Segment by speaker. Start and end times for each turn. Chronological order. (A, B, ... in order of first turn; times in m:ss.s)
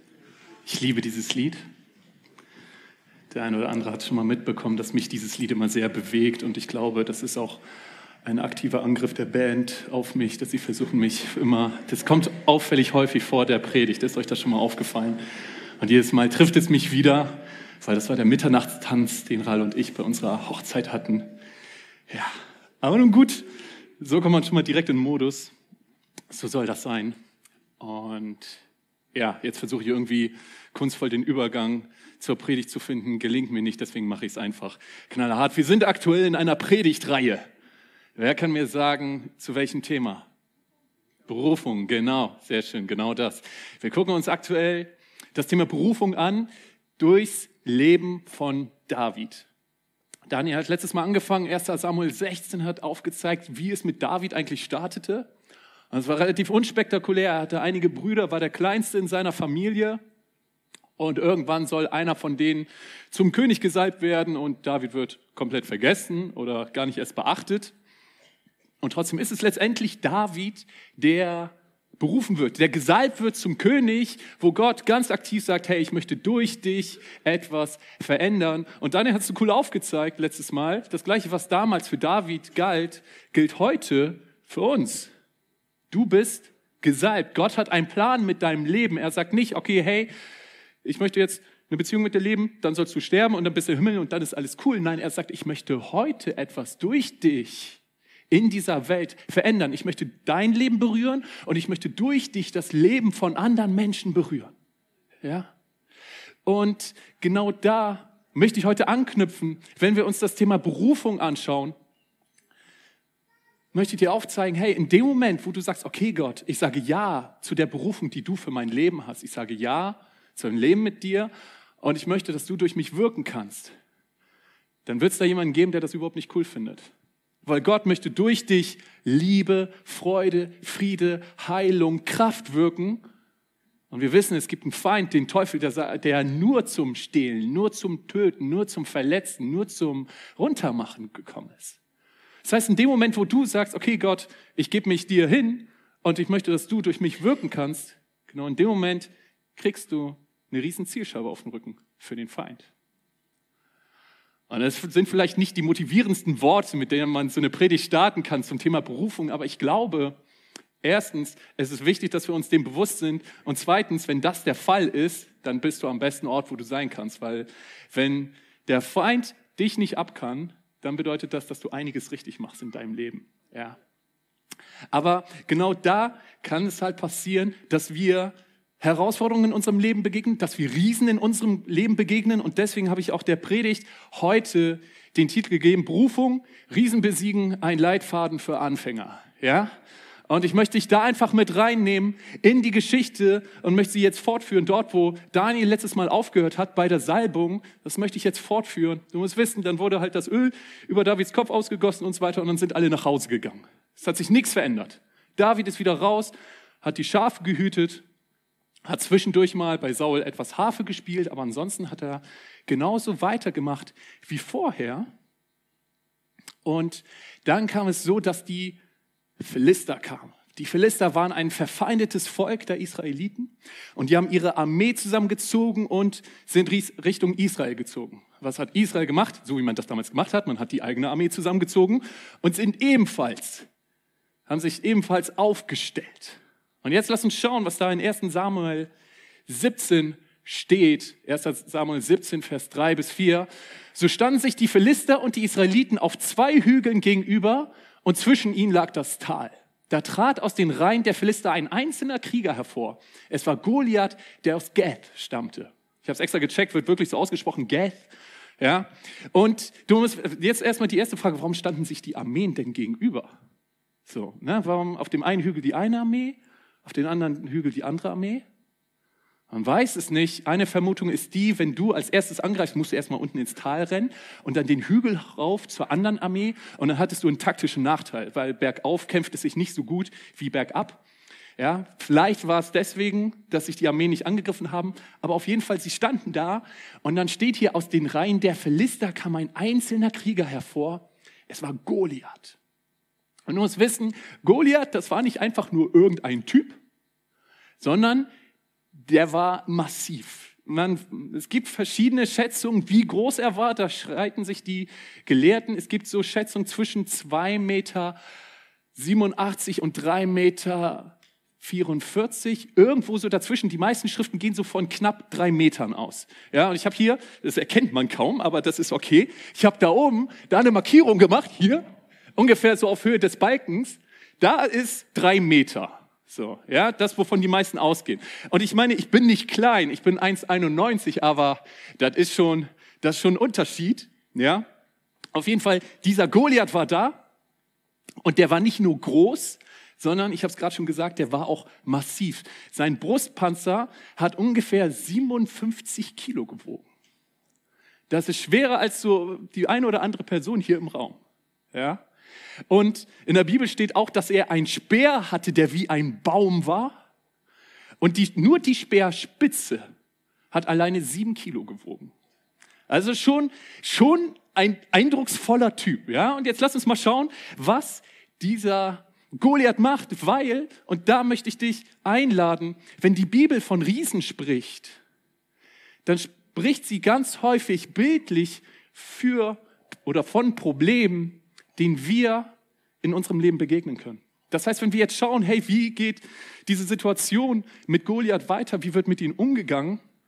0:00.6-0:01.6 A
0:03.3-0:07.6 A
0:08.2-0:15.2 A
0:15.8-0:21.3 A
0:22.1-0:23.4 A
0:24.0-0:25.5 A
0:26.3-0:27.1 A
0:27.8-0:28.6 A
0:29.1-0:37.4 A
0:38.2-0:40.3 A
0:41.3-0:49.5 A
0:50.3-0:55.3 A
0:55.9-1:00.0 A
1:01.0-1:07.7 A
1:08.8-1:25.1 A
1:25.9-1:30.1 A
1:30.8-1:44.5 A
1:45.2-1:45.5 A
1:46.4-1:51.7 A
1:53.7-2:03.7 A
2:04.8-2:06.9 A
2:07.4-2:13.0 A
2:13.9-2:21.8 A
2:22.4-2:32.7 A
2:34.5-2:40.2 A
2:40.8-2:53.8 A
2:54.9-3:09.7 A
3:10.3-3:28.0 A
3:28.8-3:35.1 A
3:36.6-3:38.8 A
3:39.4-3:53.7 A
3:54.5-3:58.9 A
3:59.5-4:23.4 A
4:24.0-4:28.4 A
4:29.5-4:41.0 A
4:41.6-4:52.6 A
4:53.5-4:56.8 A
4:57.8-4:58.3 A
4:58.9-5:08.2 A
5:08.9-5:21.8 A
5:22.4-5:34.6 A
5:35.3-5:37.2 A
5:38.2-5:46.8 A
5:48.1-5:51.2 A
5:51.7-5:52.0 A
5:52.7-5:57.0 A
5:58.0-5:59.9 A
6:00.5-6:02.1 A
6:02.9-6:15.0 A
6:16.0-6:30.0 A